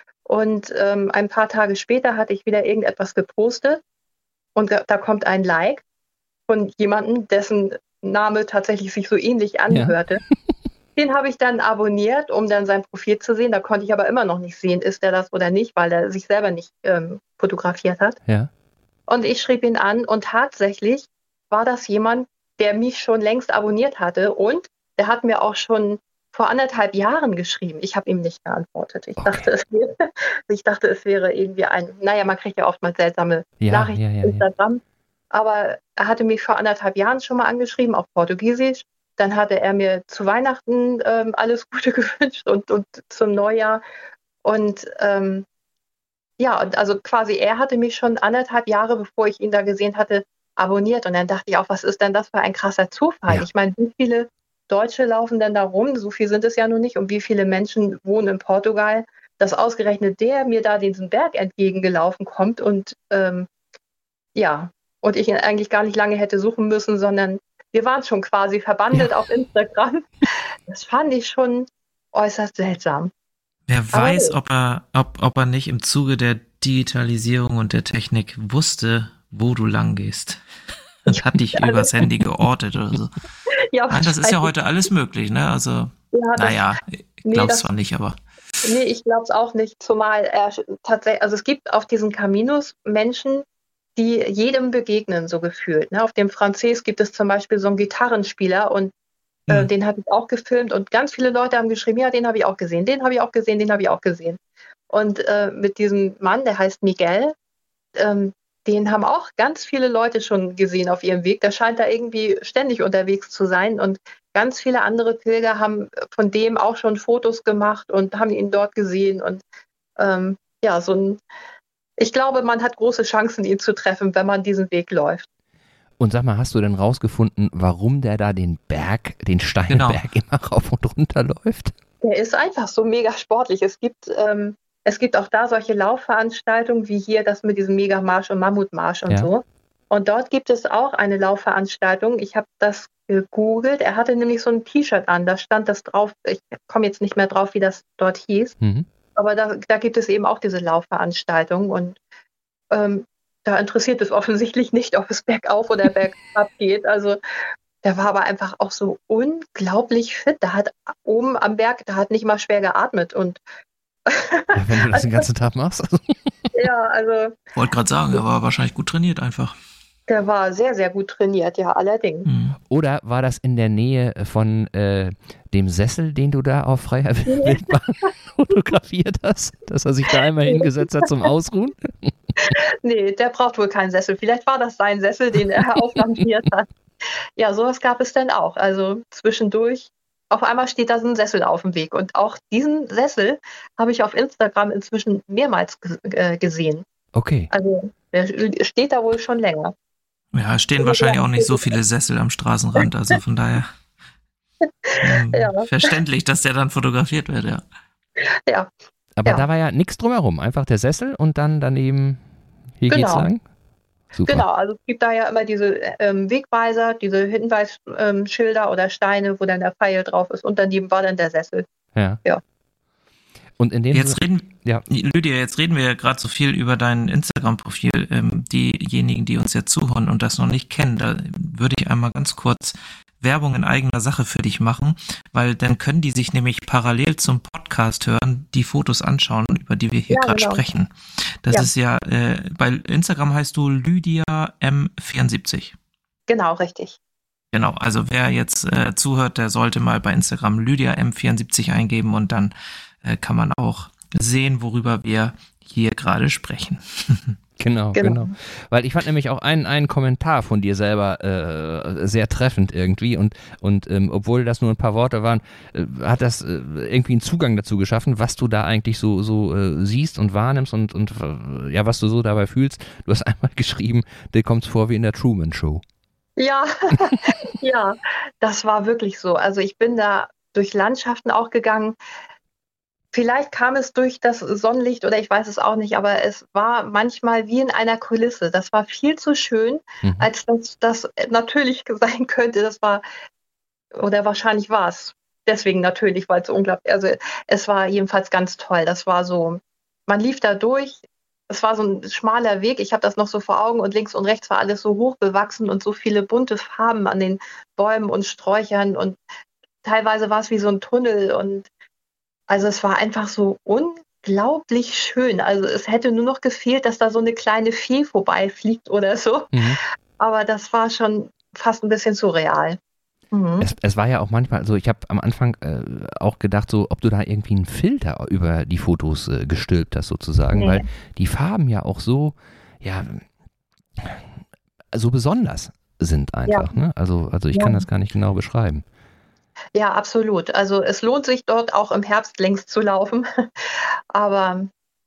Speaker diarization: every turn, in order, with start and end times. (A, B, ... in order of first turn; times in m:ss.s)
0:00.3-0:03.8 A
0:04.6-0:05.8 A
0:06.5-0:10.2 A
0:09.7-0:10.0 B
0:11.0-0:18.2 A
0:19.1-0:34.8 A
0:29.2-0:29.5 B
0:33.6-0:34.4 B
0:35.3-0:43.8 A
0:44.4-0:45.5 A
0:46.4-1:03.5 A
1:04.4-1:13.1 A
1:13.7-1:20.4 C
1:13.9-1:14.3 A
1:21.0-1:23.1 C
1:21.1-1:21.9 A
1:23.7-1:24.5 A
1:23.9-1:28.6 C
1:26.1-1:26.7 A
1:27.2-1:27.7 A
1:28.6-1:33.4 A
1:34.0-1:38.9 A
1:39.5-1:44.4 A
1:44.9-1:47.4 A
1:48.0-1:59.4 A
2:00.0-2:01.2 A
2:02.0-2:05.3 A
2:06.0-2:11.7 B
2:09.7-2:10.0 C
2:12.0-2:28.6 A
2:28.6-2:28.9 B
2:29.2-2:32.0 A
2:32.7-2:37.2 A
2:37.8-2:43.4 A
2:44.1-2:45.2 A
2:44.6-2:46.5 B
2:46.5-2:47.4 A
2:47.6-2:49.6 C
2:50.1-2:52.3 A
2:52.3-2:52.6 C
2:52.7-3:02.6 B
2:57.3-2:58.1 A
3:00.5-3:01.1 A
3:02.4-3:16.8 A
3:17.2-3:17.5 B
3:17.5-3:19.7 A
3:20.3-3:23.7 C
3:20.8-3:21.7 A
3:22.8-3:23.2 A
3:24.6-3:25.7 A
3:25.0-3:27.6 C
3:29.2-3:32.2 B
3:32.8-3:33.4 B
3:32.9-3:33.3 A
3:34.2-3:34.4 B
3:34.3-3:41.7 A
3:42.0-3:42.2 B
3:43.6-3:44.9 B
3:43.9-4:05.7 C
4:00.1-4:00.6 A
4:06.3-4:07.0 A
4:07.5-4:17.4 C
4:17.6-4:35.8 B
4:18.0-4:18.3 A
4:36.4-4:42.0 A
4:43.1-4:53.0 A
4:50.0-4:50.3 B
4:53.9-5:09.2 A
5:09.8-5:11.7 A
5:12.5-5:22.8 A
5:19.5-5:19.8 B
5:23.3-5:23.7 A
5:23.6-5:33.2 B
5:30.6-5:30.8 A
5:34.0-5:34.3 B
5:34.9-5:38.8 B
5:37.5-5:37.8 A
5:39.8-5:44.7 A